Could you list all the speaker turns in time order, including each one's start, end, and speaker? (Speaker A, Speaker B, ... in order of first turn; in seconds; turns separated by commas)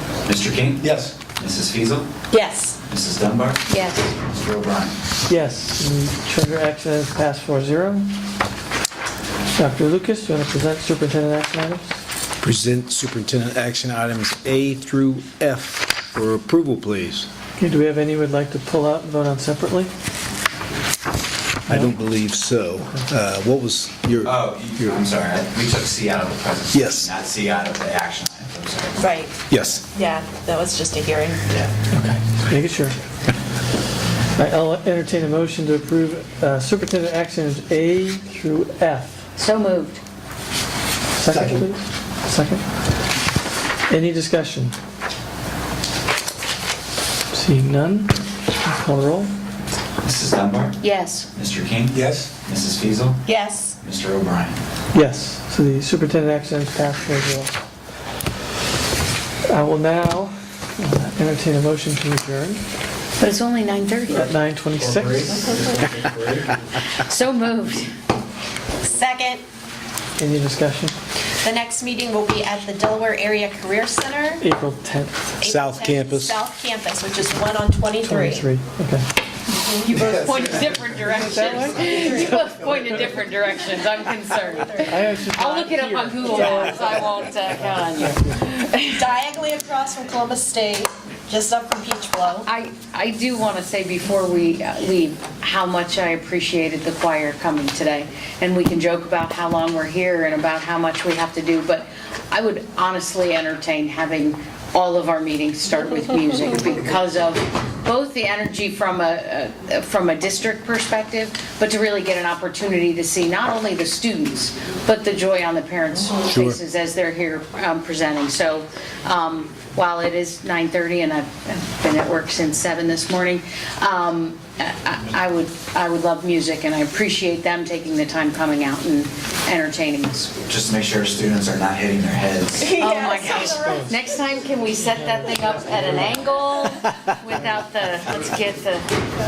Speaker A: 0.3-0.8, Speaker B: 0.8-1.1, Speaker A: 1.4-2.1, Speaker C: 2.3-2.8, Speaker A: 2.9-3.6, Speaker D: 3.7-4.1, Speaker A: 4.3-4.9, Speaker E: 5.3-8.2, Speaker E: 9.6-12.0, Speaker F: 12.4-17.3, Speaker E: 17.6-19.9, Speaker F: 21.7-25.0, Speaker E: 21.7-22.0, Speaker E: 22.8-23.1, Speaker A: 24.2-29.0, Speaker F: 26.7-27.1, Speaker C: 29.0-31.5, Speaker F: 29.5-29.8, Speaker E: 31.9-33.0, Speaker E: 34.4-39.2, Speaker D: 39.4-40.0, Speaker E: 41.1-42.6, Speaker B: 41.3-41.7, Speaker E: 43.9-44.8, Speaker E: 47.3-49.3, Speaker A: 50.0-50.8, Speaker D: 50.8-51.3, Speaker A: 51.3-53.2, Speaker B: 51.9-52.3, Speaker C: 53.3-53.8, Speaker A: 53.8-54.6, Speaker E: 54.9-57.5, Speaker E: 59.5-62.6, Speaker D: 63.2-64.3, Speaker E: 64.1-65.5, Speaker B: 64.8-66.6, Speaker D: 67.0-67.9, Speaker C: 68.8-69.4, Speaker E: 70.2-71.0, Speaker C: 71.4-74.4, Speaker E: 74.4-75.4, Speaker C: 75.4-78.5, Speaker F: 75.4-76.4, Speaker E: 78.0-79.1, Speaker C: 79.6-79.8, Speaker D: 79.7-89.0, Speaker E: 81.2-82.4, Speaker C: 81.9-82.2, Speaker E: 84.9-87.0, Speaker C: 88.9-92.5, Speaker D: 92.5-130.3, Speaker F: 116.2-116.6, Speaker A: 130.5-132.7, Speaker C: 132.6-133.9, Speaker D: 132.8-138.8